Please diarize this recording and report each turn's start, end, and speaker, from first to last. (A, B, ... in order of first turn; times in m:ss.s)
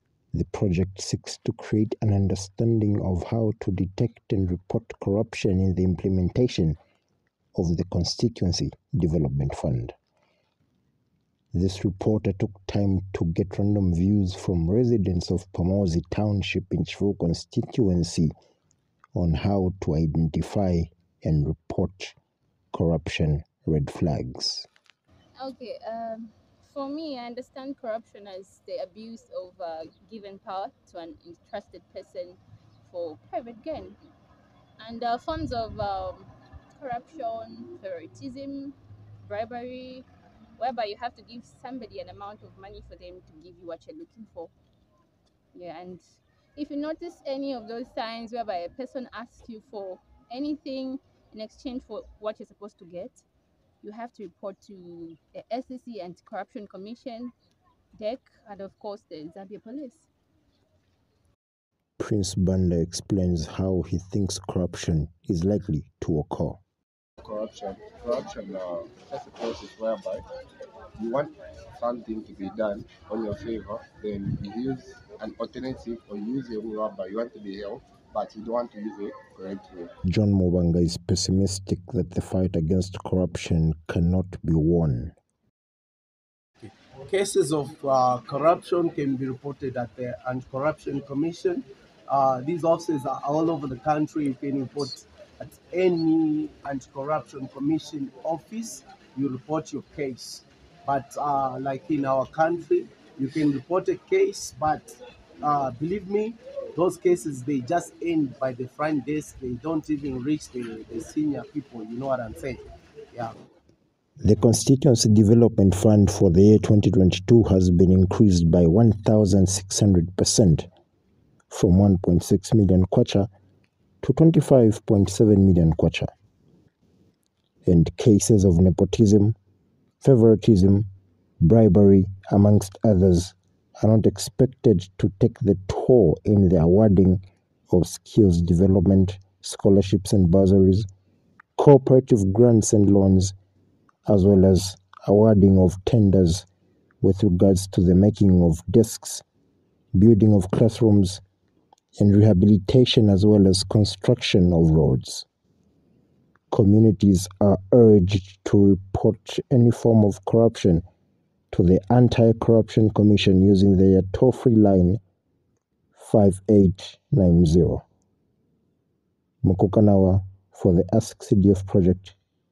0:00.3-0:06.8 A
0:07.6-0:10.0 A
0:11.5-0:18.3 A
0:19.2-0:22.2 A
0:22.7-0:24.7 A
0:25.4-0:34.0 B
0:34.8-0:40.1 B
0:40.6-0:44.5 B
0:45.5-0:46.0 B
0:46.6-0:53.2 B
0:53.8-0:57.3 B
0:58.0-1:00.1 B
1:02.0-1:06.6 A
1:07.2-1:10.2 C
1:11.0-1:20.0 C
1:20.0-1:25.1 A
1:26.6-1:53.3 D
1:54.2-2:00.7 A
2:01.5-2:03.3 A
2:04.0-2:06.1 A
2:07.6-2:09.4 A
2:10.0-2:10.9 A
2:11.4-2:20.9 A
2:21.6-2:23.4 A
2:24.1-2:26.5 A
2:27.0-2:29.2 A
2:30.0-2:31.2 A
2:32.0-2:35.3 A
2:36.5-2:40.8 A
2:41.5-2:45.0 A
2:46.0-2:47.8 A
2:49.4-2:52.2 A